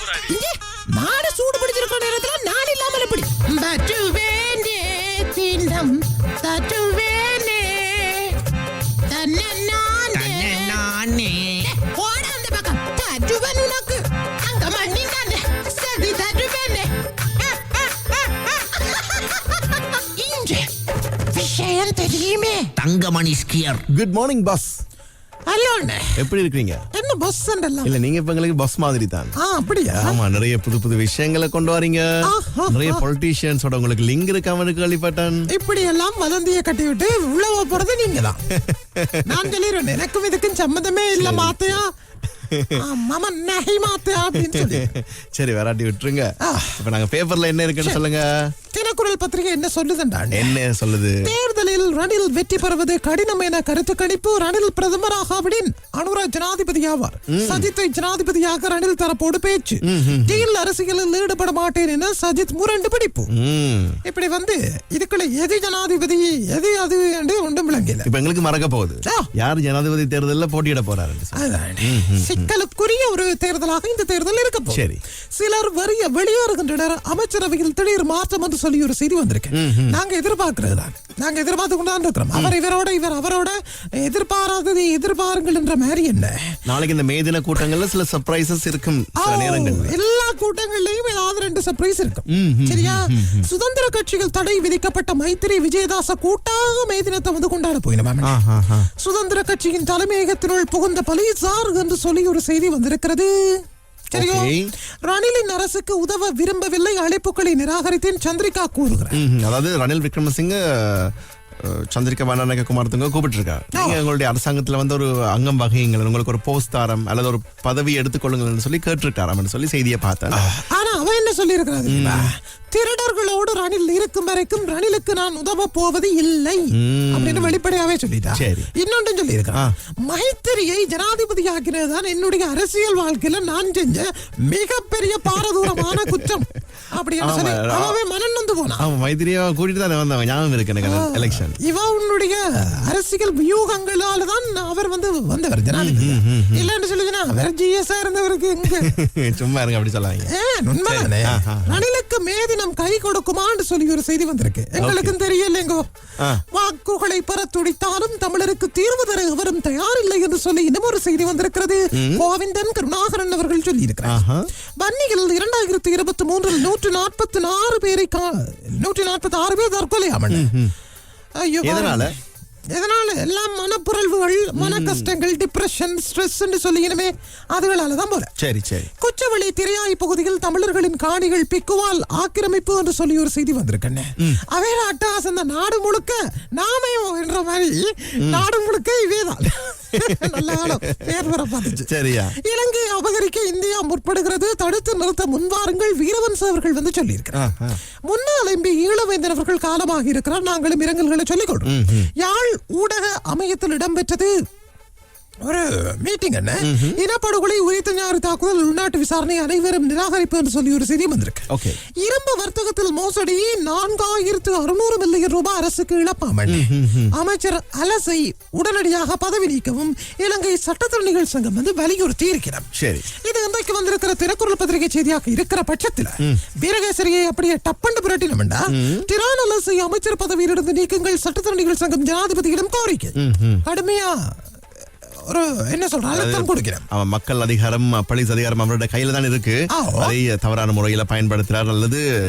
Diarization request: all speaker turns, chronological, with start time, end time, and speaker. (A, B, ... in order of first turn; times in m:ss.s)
0:00.1-0:08.4 A
0:09.0-0:10.9 A
0:10.2-0:11.7 B
0:11.6-0:20.7 A
0:21.3-0:22.7 A
0:22.8-0:23.8 B
0:23.9-0:24.8 C
0:25.5-0:26.3 A
0:26.2-0:26.8 C
0:26.9-0:28.0 A
0:27.8-0:29.4 C
0:29.4-0:30.2 A
0:29.9-0:35.5 C
0:32.2-0:33.0 A
0:35.5-0:38.4 A
0:38.5-0:39.5 C
0:39.2-0:41.9 A
0:41.2-0:41.8 C
0:42.4-0:42.9 C
0:42.7-0:45.0 A
0:44.1-0:48.5 C
0:46.4-0:46.8 A
0:48.7-0:50.6 A
0:50.3-0:51.3 C
0:51.2-1:03.3 A
0:57.3-0:57.7 C
0:59.8-1:00.5 C
1:03.3-1:04.0 C
1:04.0-1:08.1 A
1:08.0-1:12.5 C
1:11.3-1:26.6 A
1:14.7-1:15.0 C
1:19.5-1:20.0 C
1:26.7-1:29.9 C
1:29.2-1:38.4 A
1:32.3-1:33.5 C
1:38.2-1:38.9 C
1:38.9-1:49.2 A
1:44.1-1:44.7 C
1:49.1-2:00.6 C
1:53.7-1:54.0 A
2:00.3-2:18.9 A
2:01.9-2:02.3 C
2:06.7-2:07.6 C
2:08.3-2:08.7 C
2:15.8-2:16.3 C
2:17.2-2:18.0 C
2:18.8-2:21.6 C
2:20.8-2:29.0 A
2:25.7-2:26.7 C
2:28.7-2:30.3 C
2:30.3-2:44.2 A
2:30.9-2:31.8 C
2:34.8-2:35.2 C
2:41.9-2:42.2 C
2:44.0-2:44.5 C
2:44.8-2:50.5 A
2:50.3-2:50.7 C
2:51.4-2:52.1 A
2:51.6-2:52.2 C
2:52.7-2:58.3 A
2:54.6-2:55.1 C
2:58.4-2:58.9 C
2:58.9-3:17.5 A
3:08.2-3:08.5 C
3:09.9-3:12.4 C
3:17.4-3:17.8 C
3:18.1-3:24.3 A
3:21.6-3:22.1 C
3:25.4-3:54.2 A
3:26.6-3:27.0 C
3:31.5-3:31.8 C
3:36.5-3:37.1 C
3:42.8-3:43.1 C
3:48.7-3:49.0 C
3:53.2-3:53.6 C
3:55.3-3:56.9 A
3:56.1-4:02.0 C
3:59.7-4:00.2 A